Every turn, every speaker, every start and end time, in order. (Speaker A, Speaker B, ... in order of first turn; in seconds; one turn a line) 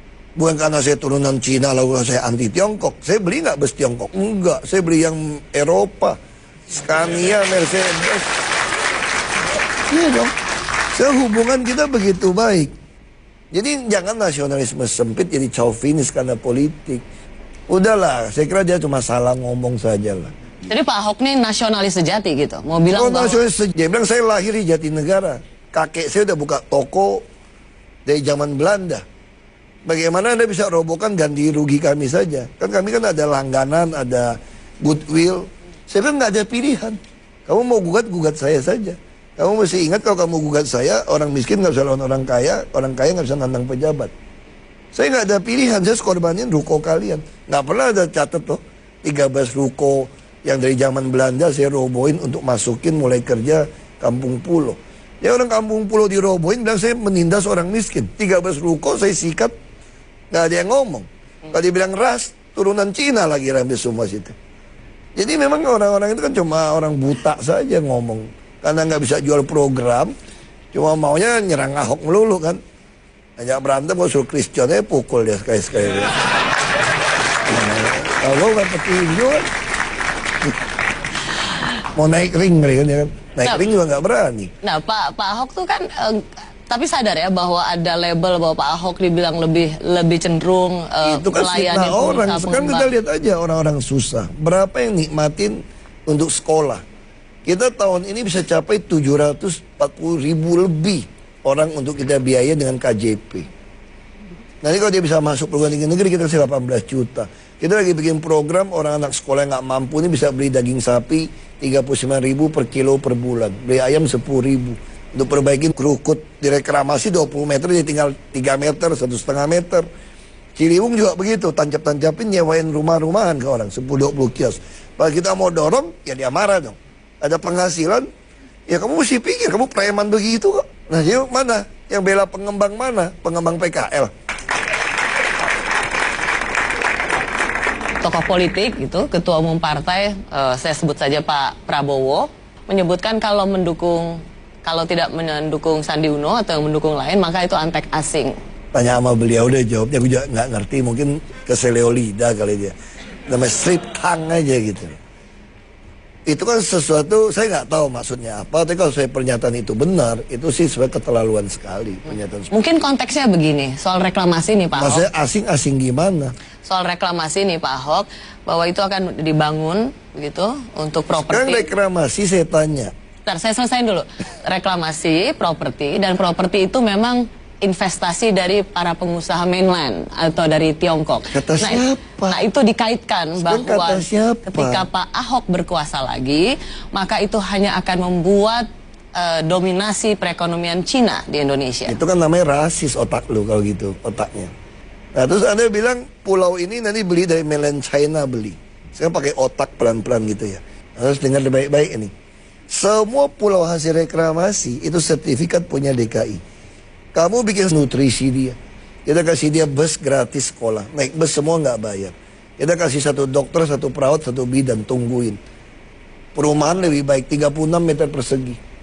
Speaker A: 0.4-6.2
Speaker A: 6.7-8.3
Speaker A: 9.9-10.3
Speaker A: 10.9-12.7
Speaker A: 13.5-17.1
Speaker A: 17.7-20.3
Speaker B: 20.7-23.4
Speaker A: 22.9-27.2
Speaker A: 28.1-29.0
Speaker A: 29.9-44.1
Speaker A: 44.9-59.5
Speaker A: 60.3-64.3
Speaker A: 65.2-70.1
Speaker A: 70.7-72.6
Speaker A: 73.4-76.1
Speaker A: 77.5-79.5
Speaker A: 82.0-84.5
Speaker B: 84.6-92.9
Speaker A: 91.0-96.8
Speaker A: 97.5-103.5
Speaker A: 104.6-119.9
Speaker A: 120.6-128.1
Speaker A: 128.7-134.1
Speaker B: 138.0-148.4
Speaker A: 148.7-152.7
Speaker A: 153.3-155.0
Speaker A: 156.3-162.5
Speaker B: 162.5-165.1
Speaker A: 164.8-166.3
Speaker B: 166.7-171.7
Speaker A: 171.3-172.9
Speaker B: 173.3-192.0
Speaker A: 181.3-182.4
Speaker A: 183.4-184.9
Speaker A: 191.9-194.5
Speaker A: 195.2-202.1
Speaker A: 202.7-206.4
Speaker A: 207.1-215.4
Speaker A: 216.3-218.6